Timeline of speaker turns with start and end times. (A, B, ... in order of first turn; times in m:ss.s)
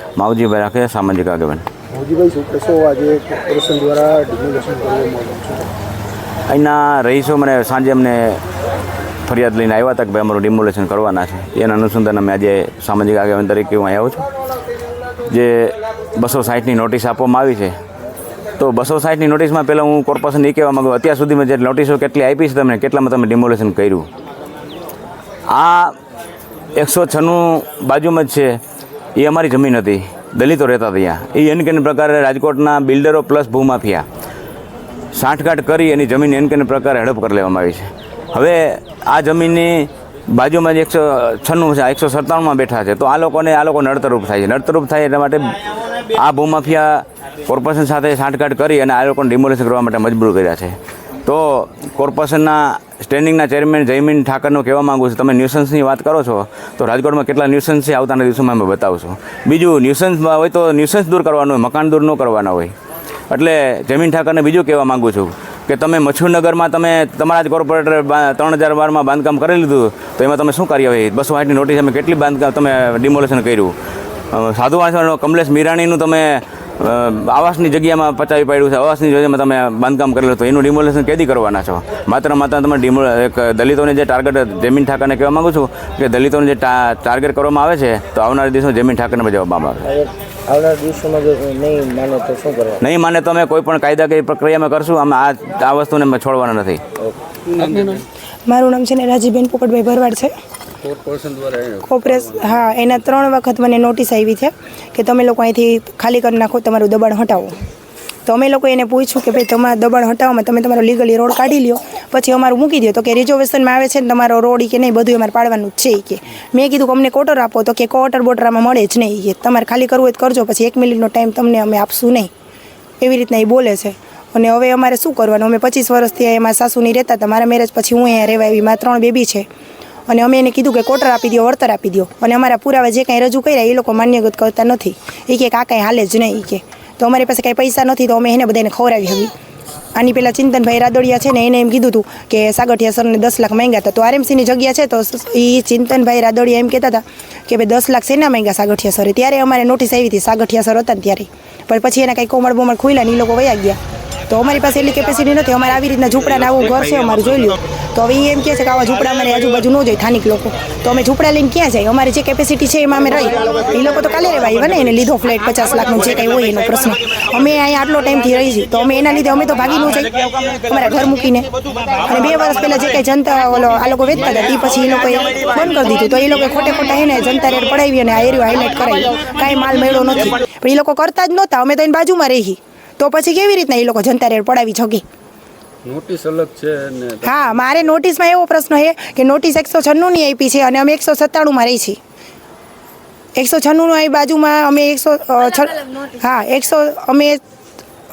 0:00.2-0:01.6 A
0:01.9-0:05.7 B
0:06.5-0:08.4 A
0:09.3-0:14.2 A
0:15.3-0:17.8 A
0:18.6-0:24.1 A
0:25.5-0:26.0 A
0:26.8-0:28.6 A
0:29.2-0:34.0 A
0:35.1-1:02.7 A
1:03.3-1:13.7 A
1:14.3-1:29.9 A
1:29.9-1:32.8 C
1:32.8-1:36.8 A
1:37.5-1:38.0 D
1:38.5-1:40.3 E
1:40.8-1:42.6 D
1:41.9-1:47.6 E
1:48.3-2:02.3 E
2:03.0-2:09.5 E
2:10.1-2:19.3 E
2:20.0-2:33.8 E
2:34.3-2:51.5 E
2:52.0-3:05.0 E
3:05.8-3:07.8 D
3:07.2-3:12.0 E
3:13.4-3:17.4 E